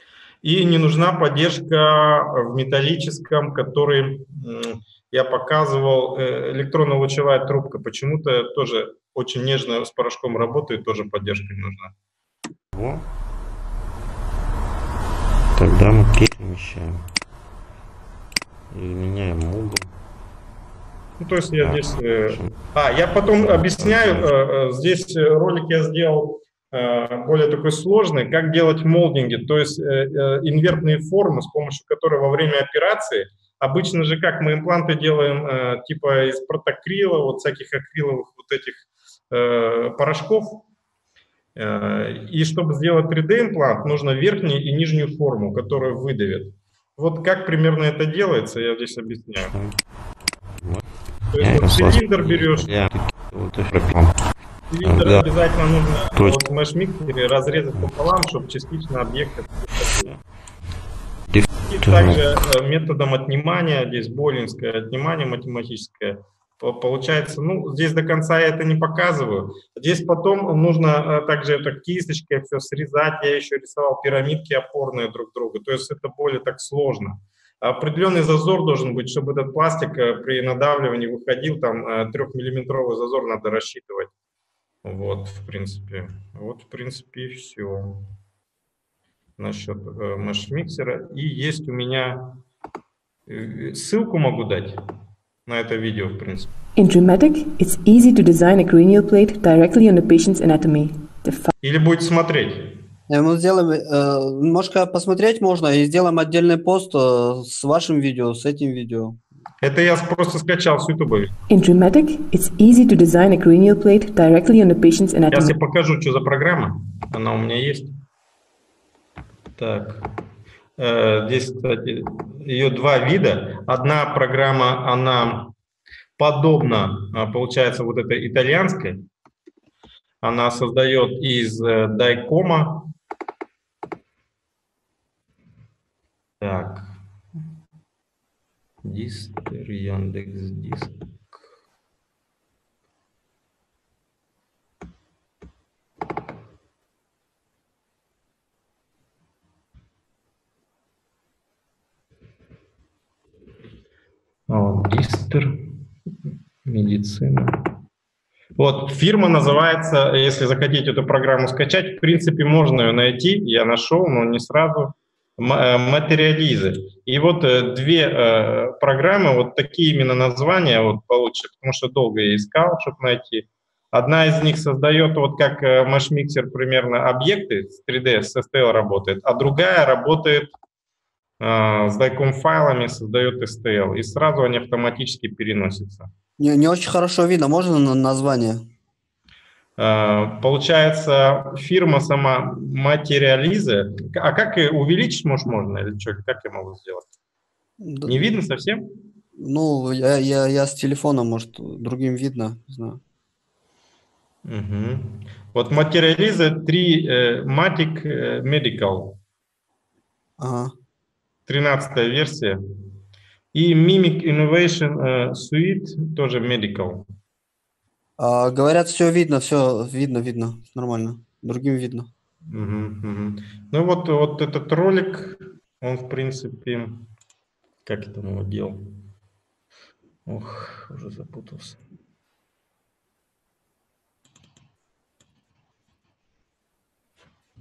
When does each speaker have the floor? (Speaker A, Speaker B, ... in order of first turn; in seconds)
Speaker A: 0.4-11.9, 21.2-40.6, 41.5-49.5, 51.3-52.7, 54.7-60.1, 61.7-84.1, 84.8-88.1, 89.4-92.4, 93.3-94.8, 95.5-96.5, 101.6-102.8, 109.6-111.4, 115.3-117.9, 119.6-120.0, 120.8-125.5, 126.2-129.0, 130.2-132.9, 136.4-136.9, 138.8-141.0, 154.5-155.7, 156.6-157.7, 158.6-180.5, 181.4-186.1, 189.8-197.1, 198.1-198.9, 204.4-209.2, 211.5-212.6, 213.5-217.1, 222.5-227.1, 227.8-228.9, 230.2-231.8
Speaker B: 12.7-13.1, 15.6-17.1, 18.7-19.9, 21.6-22.5, 23.7-24.2, 49.4-49.7, 51.4-54.1, 54.8-55.2, 61.3-62.2
Speaker C: 96.8-101.5, 111.5-115.5
Speaker D: 103.1-109.2, 186.4-188.7, 197.8-198.2, 199.3-203.0, 210.4-210.7, 218.2-222.1